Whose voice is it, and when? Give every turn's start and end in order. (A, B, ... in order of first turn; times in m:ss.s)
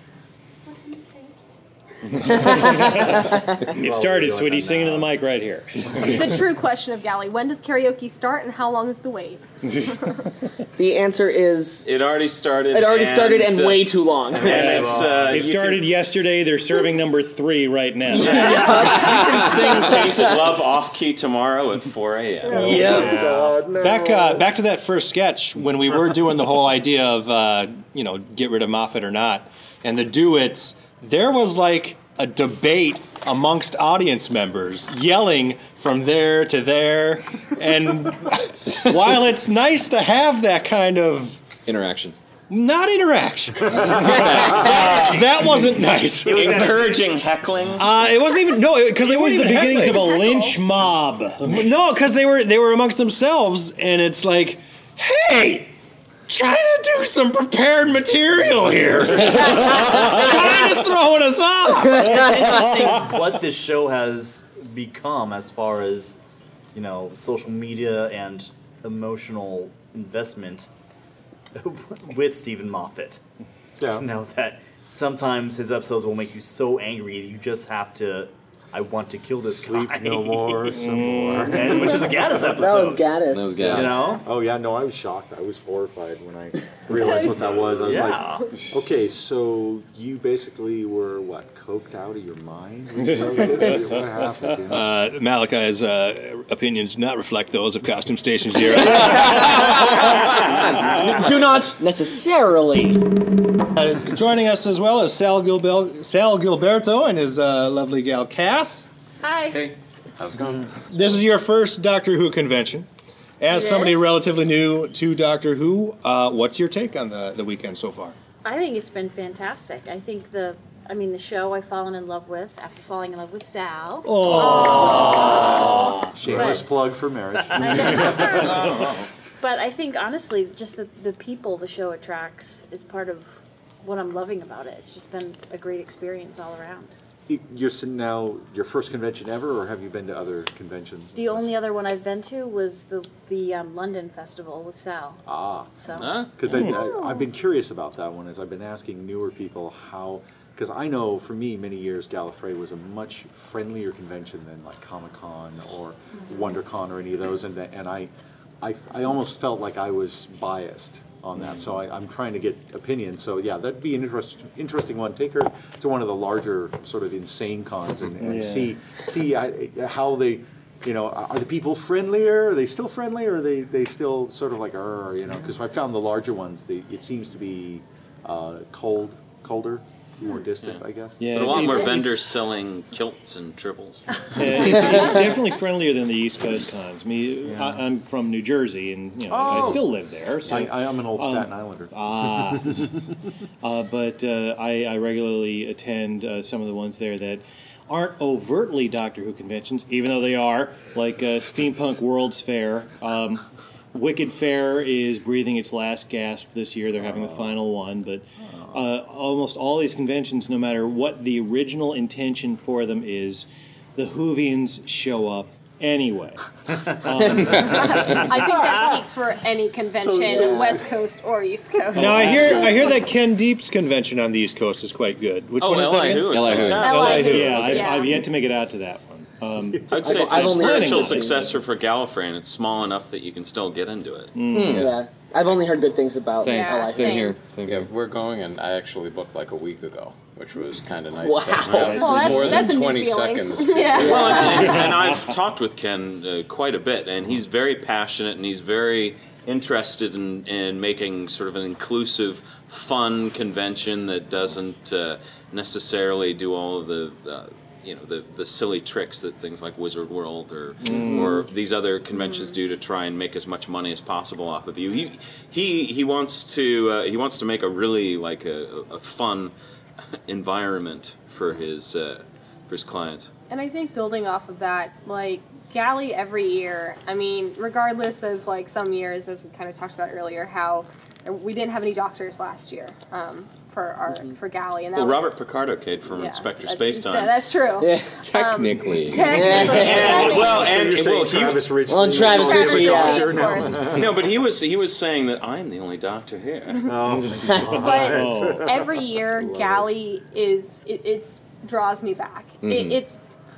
0:02.3-0:06.2 A
0:02.3-0:03.6 B
0:03.8-0:05.1 C
0:06.1-0:10.2 D
0:10.8-0:11.9 B
0:11.8-0:15.9 E
0:12.7-0:14.8 B
0:14.4-0:15.4 C
0:14.5-0:15.4 F
0:14.5-0:18.5 A
0:18.2-0:23.1 E
0:18.2-0:20.5 B
0:18.4-0:19.0 F
0:18.7-0:19.6 G
0:22.4-0:23.0 D
0:22.5-0:24.4 C
0:22.6-0:23.2 B
0:22.7-0:23.2 H
0:22.8-0:23.5 F
0:23.7-0:41.4 H
0:41.6-0:42.2 G
0:42.5-0:46.7 H
0:43.7-0:44.8 C
0:43.9-0:44.7 G
0:44.6-0:45.2 E
0:46.2-0:47.1 F
0:46.2-0:47.9 E
0:47.8-0:50.3 H
0:49.0-0:51.6 A
0:51.4-0:55.7 H
0:56.3-1:02.5 H
1:01.9-1:02.6 B
1:02.0-1:06.2 F
1:06.7-1:10.7 F
1:11.5-1:13.2 F
1:13.8-1:14.1 C
1:13.9-1:24.2 F
1:19.4-1:22.4 C
1:20.8-1:21.5 A
1:22.6-1:23.9 B
1:23.2-1:24.1 G
1:23.8-1:34.9 C
1:26.9-1:28.5 D
1:27.8-1:28.5 F
1:34.7-1:40.3 H
1:39.3-1:39.8 B
1:41.1-1:43.0 B
1:43.8-1:48.8 H
1:49.2-1:49.7 I
1:49.5-1:51.2 J
1:50.9-1:52.9 H
1:53.4-1:58.2 H
1:53.5-1:54.1 I
1:58.4-2:06.9 I
2:04.0-2:05.0 H
2:04.4-2:05.9 D
2:05.1-2:08.5 C
2:07.5-2:08.0 F
2:07.6-2:16.9 I
2:08.3-2:09.0 E
2:17.3-2:21.5 C
2:21.1-2:25.2 I
2:25.2-2:25.7 C
2:25.8-2:27.2 I
2:25.9-2:26.3 E
2:26.4-2:38.1 C
2:26.5-2:26.8 A
2:38.6-3:01.7 C
2:48.2-2:48.7 A
3:00.6-3:04.0 E
3:01.2-3:02.1 A
3:04.3-3:12.9 A
3:04.7-3:05.1 E
3:09.3-3:11.9 C
3:13.6-3:38.3 A
3:27.0-3:27.6 C
3:28.5-3:28.8 C
3:37.5-3:43.0 D
3:38.1-3:38.8 F
3:40.0-3:40.8 C
3:40.3-3:40.7 B
3:41.9-3:47.9 H
3:42.0-3:42.8 C
3:45.6-3:47.5 E
3:46.3-3:46.9 G
3:46.8-3:48.2 D
3:47.1-3:51.4 A
3:49.7-3:50.4 C
3:49.9-3:54.3 E
3:50.0-3:51.6 B
3:54.4-3:54.9 A
3:54.5-3:55.0 G
3:54.5-3:57.3 B
3:56.4-3:57.9 G
3:56.5-3:57.3 D
3:57.6-4:04.9 J
4:01.2-4:02.6 B
4:01.7-4:02.6 A
4:01.8-4:04.8 D
4:04.0-4:29.5 E
4:20.8-4:21.3 A
4:20.9-4:21.4 B
4:22.1-4:22.4 D
4:30.3-4:33.3 E
4:33.5-4:45.3 D
4:44.9-4:47.7 E
4:46.1-4:51.0 D
4:47.8-4:48.2 B
4:48.1-4:49.7 G
4:49.1-4:50.2 B
4:49.5-4:54.1 C
4:49.6-4:51.7 E
4:51.9-4:53.7 B
4:52.2-4:53.9 D
4:53.9-4:56.9 E
4:56.8-4:59.9 C
4:57.5-4:58.6 A
4:57.7-5:03.2 D
5:02.6-5:03.0 G